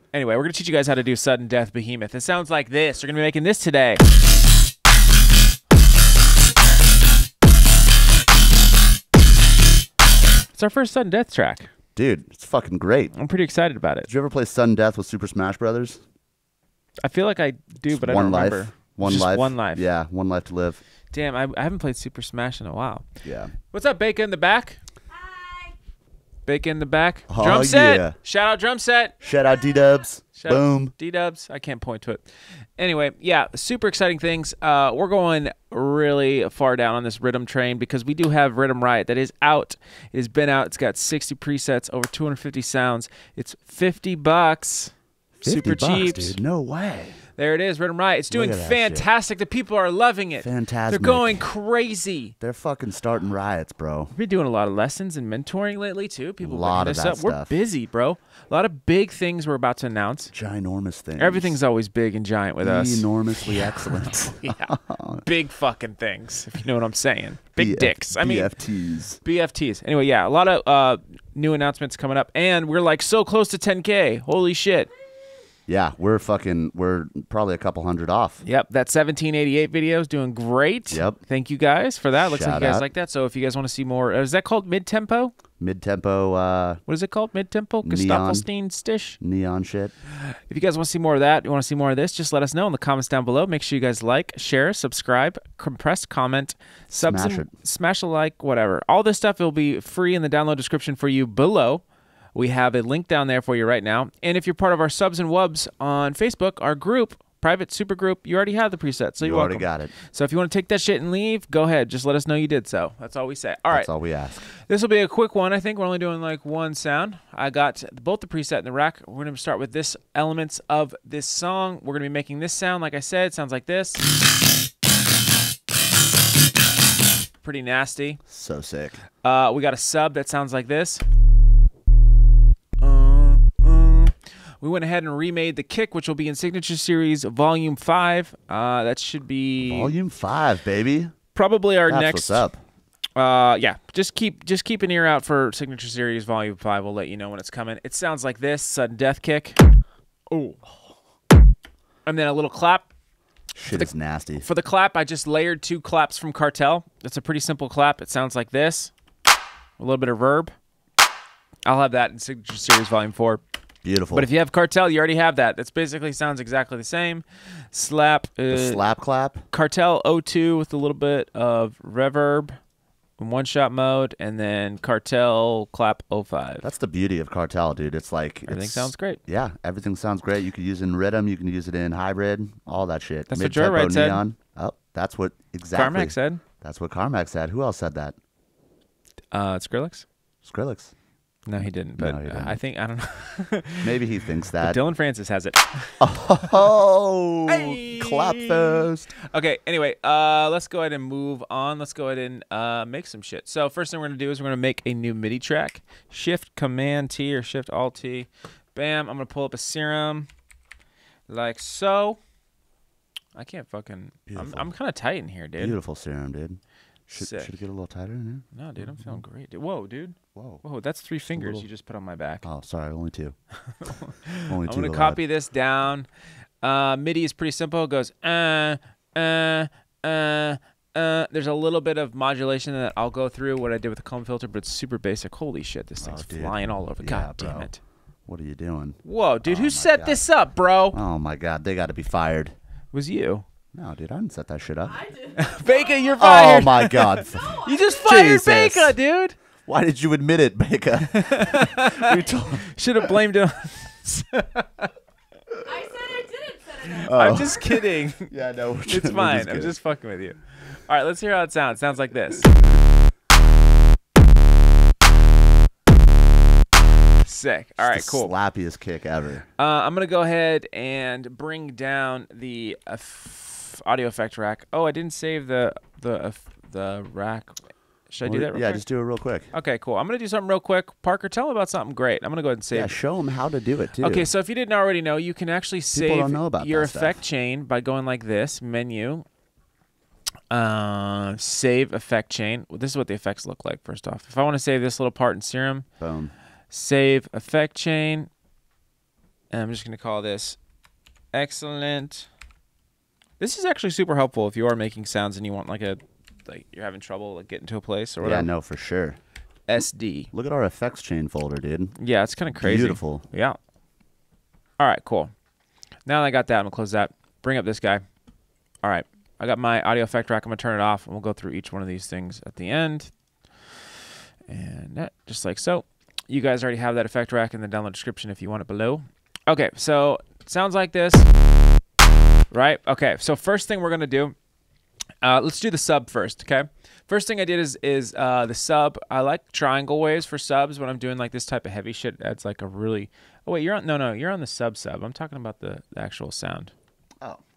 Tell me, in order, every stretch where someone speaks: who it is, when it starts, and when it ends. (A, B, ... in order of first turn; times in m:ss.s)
0:00.1-0:04.0 A
0:10.6-0:11.7 A
0:12.0-0:13.1 B
0:13.1-0:14.1 A
0:14.1-0:16.0 B
0:17.0-0:19.9 A
0:17.9-0:20.8 B
0:21.1-0:23.1 A
0:23.2-0:23.5 B
0:23.7-0:24.8 A
0:25.1-0:25.7 C
0:26.5-0:29.2 A
0:27.3-0:28.2 B
0:29.2-0:30.9 B
0:29.6-0:29.9 C
0:30.4-0:32.3 A
0:32.8-0:46.4 A
0:45.4-0:47.2 B
0:47.4-0:52.4 A
0:48.3-0:49.1 B
0:50.4-0:51.4 B
0:52.4-0:54.1 B
0:54.1-1:00.3 A
0:56.4-0:57.5 B
1:00.3-1:01.6 B
1:01.2-1:08.6 A
1:02.6-1:05.2 B
1:07.6-1:09.2 B
1:09.2-1:14.9 A
1:15.7-1:18.4 B
1:18.4-1:25.3 A
1:20.9-1:21.2 B
1:22.2-1:22.9 B
1:25.6-1:26.8 B
1:26.9-1:29.2 A
1:27.8-1:28.5 B
1:29.2-1:29.9 B
1:30.2-1:41.8 A
1:36.9-1:37.5 B
1:42.4-1:53.9 A
1:49.2-1:49.9 B
1:53.7-1:54.4 B
1:54.4-2:04.0 A
2:07.4-2:08.2 A
2:08.3-2:09.0 B
2:09.2-2:11.0 A
2:12.8-2:20.0 A
2:19.6-2:21.1 B
2:21.4-2:22.5 A
2:21.9-2:22.6 B
2:23.2-2:29.6 A
2:30.3-2:30.6 A
2:32.1-2:32.9 A
2:33.6-2:34.4 B
2:33.7-2:38.9 A
2:39.8-2:40.5 A
2:41.7-2:43.4 A
2:43.8-2:44.3 B
2:44.1-2:48.8 A
2:48.5-2:49.4 B
2:49.5-2:52.6 A
2:53.2-2:56.7 A
2:56.6-3:08.2 B
2:58.5-2:59.2 A
3:03.3-3:04.2 A
3:05.7-3:06.4 A
3:09.3-3:10.0 A
3:10.4-3:10.9 B
3:11.5-3:14.0 A
3:11.6-3:12.6 B
3:13.8-3:14.8 B
3:14.6-3:16.0 A
3:16.0-3:19.1 B
3:17.5-3:30.3 A
3:31.3-3:32.2 A
3:33.3-3:35.8 A
3:34.3-3:34.7 B
3:35.6-3:39.2 B
3:37.1-3:37.5 A
3:38.5-3:42.5 A
3:40.3-3:40.6 B
3:41.3-3:41.7 B
3:42.4-3:43.4 B
3:43.8-3:46.1 A
3:44.5-3:45.2 B
3:46.6-3:57.8 A
3:56.0-3:57.7 B
3:58.3-4:00.2 B
3:59.0-4:01.0 A
4:00.9-4:02.6 B
4:02.9-4:03.5 A
4:03.7-4:05.0 B
4:04.9-4:06.5 C
4:05.4-4:09.4 A
4:06.2-4:09.0 B
4:07.3-4:08.0 C
4:09.7-4:13.1 B
4:11.0-4:14.9 A
4:15.6-4:17.6 C
4:17.0-4:19.7 B
4:17.0-4:18.3 A
4:18.9-4:22.5 A
4:27.2-4:28.3 A
4:27.8-4:29.5 B
4:29.6-4:38.8 A
4:38.2-4:39.5 B
4:39.5-4:42.9 A
4:42.7-4:44.3 B
4:44.0-4:49.2 A
4:45.9-4:47.2 B
4:50.5-4:55.9 A
4:56.0-4:56.3 B
4:56.7-4:58.3 A
4:59.5-5:00.6 A
5:01.3-5:02.3 A
5:03.4-5:08.5 A
5:08.2-5:09.2 B
5:09.7-5:10.3 A
5:10.3-5:12.0 B
5:12.0-5:13.6 A
5:12.6-5:13.2 B
5:14.8-5:15.3 A
5:16.1-5:18.0 A
5:18.8-5:23.1 A
5:24.5-5:31.3 A
5:32.5-5:34.4 A
5:35.2-5:46.7 A